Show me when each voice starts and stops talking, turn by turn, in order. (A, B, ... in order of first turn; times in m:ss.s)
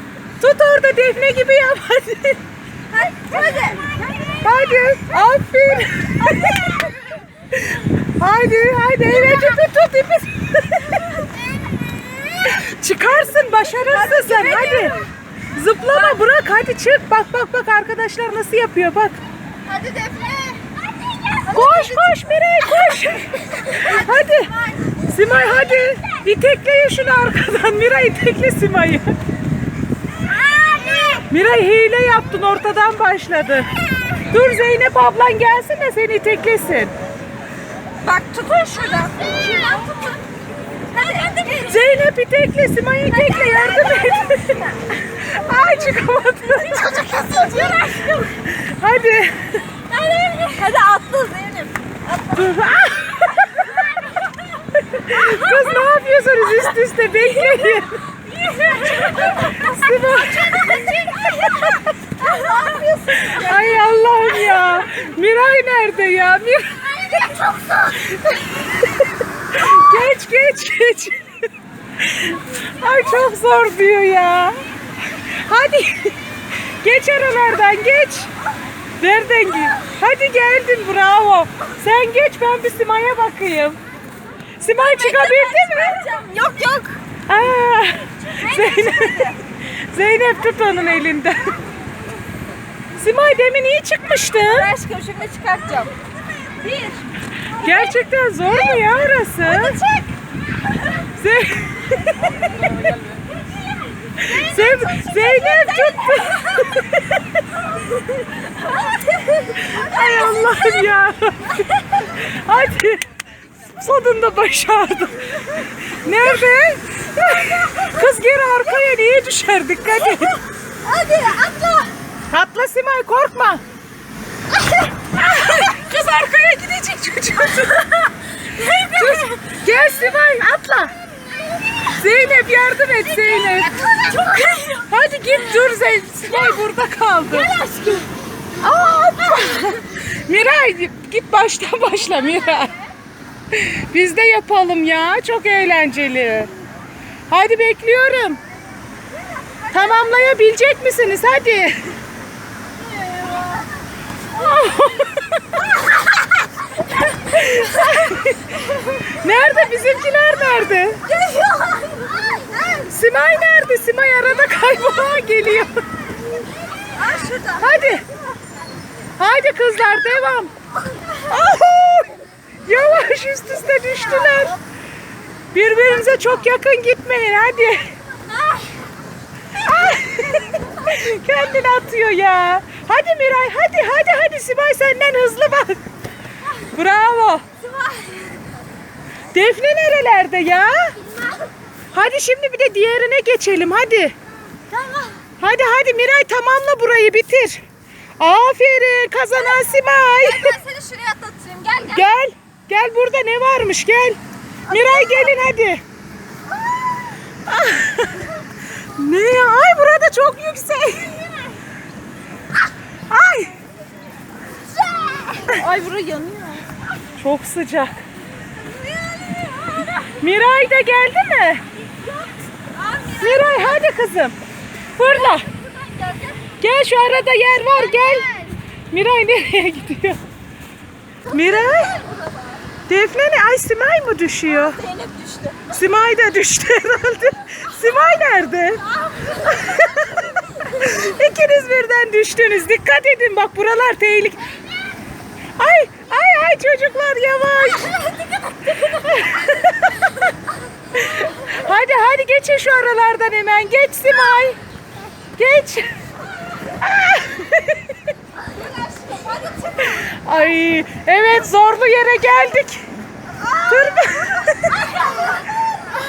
0:00.4-0:02.4 A
0:02.9-0:04.5 B
0:04.4-0:06.9 A
0:07.5-0:11.1 A
0:12.4-0:15.0 A
0:13.9-0:15.0 B
0:15.5-0:19.2 A
0:19.6-0:22.0 B
0:21.5-0:24.5 A
0:23.5-0:25.0 B
0:25.1-0:29.1 A
0:30.3-0:31.2 B
0:31.3-0:33.7 A
0:34.2-0:36.9 A
0:38.0-0:40.2 B
0:40.9-0:41.8 B
0:41.6-0:47.1 A
0:43.2-0:44.6 B
0:46.7-0:48.5 B
0:48.5-0:49.6 A
0:49.8-0:51.7 B
0:52.3-0:53.5 A
0:54.8-0:57.9 A
0:57.6-1:03.8 B
0:59.1-1:00.8 A
1:03.2-1:07.1 A
1:07.2-1:07.8 B
1:08.0-1:11.3 A
1:12.0-1:16.2 A
1:16.8-1:18.3 A
1:19.0-1:23.8 A
1:24.6-1:26.0 A
1:24.7-1:27.0 B
1:27.3-1:31.6 A
1:28.3-1:29.4 B
1:33.0-1:34.7 A
1:34.5-1:37.9 B
1:37.6-1:39.8 A
1:39.4-1:40.1 B
1:41.2-1:42.7 A
1:44.1-1:46.8 B
1:44.2-1:47.2 A
1:48.6-1:49.4 B
1:49.5-1:53.0 A
1:53.8-2:00.4 A
2:00.8-2:01.9 B
2:02.3-2:03.6 A
2:05.2-2:10.9 A
2:08.5-2:09.3 B
2:11.9-2:13.7 A
2:13.6-2:14.8 B
2:14.8-2:17.6 A
2:17.3-2:18.1 B
2:18.6-2:22.7 A
2:23.5-2:26.5 A
2:27.3-2:28.4 A
2:29.5-2:29.8 B
2:29.7-2:32.0 A
2:32.9-2:33.7 B
2:34.3-2:35.4 A
2:37.2-2:41.0 A
2:41.2-2:41.9 B
2:42.8-2:45.8 A
2:46.8-2:47.7 B
2:47.6-2:48.0 A
2:49.2-2:50.5 A
2:51.2-2:54.6 A
2:55.5-2:57.9 A
2:58.2-2:58.8 B
2:59.6-3:05.8 A
3:06.7-3:07.4 A
3:07.6-3:08.5 B
3:09.3-3:11.0 A
3:11.9-3:14.1 A
3:14.7-3:15.2 B
3:15.4-3:17.6 A
3:18.2-3:20.6 A
3:20.1-3:22.1 B
3:21.9-3:24.2 A
3:24.7-3:25.3 B
3:24.7-3:25.8 A
3:27.4-3:28.3 A
3:29.0-3:31.3 A
3:33.1-3:33.5 A
3:34.9-3:36.6 B
3:37.2-3:38.0 A
3:38.6-3:40.0 B
3:40.2-3:41.6 A
3:42.0-3:43.8 B
3:43.1-3:44.4 A
3:45.0-3:45.5 A
3:45.0-3:46.5 B
3:46.6-3:48.4 A
3:48.9-3:50.2 A
3:51.3-3:52.6 B
3:51.3-3:51.9 A
3:52.9-3:54.8 A
3:54.6-3:55.7 B
3:55.7-3:58.8 A
3:59.1-3:59.8 B
3:59.5-4:04.4 A
4:05.6-4:08.0 A
4:08.8-4:10.0 A
4:10.9-4:14.6 A
4:15.4-4:15.9 A
4:16.8-4:18.0 A
4:18.6-4:19.8 B
4:19.8-4:22.9 A
4:23.6-4:24.8 A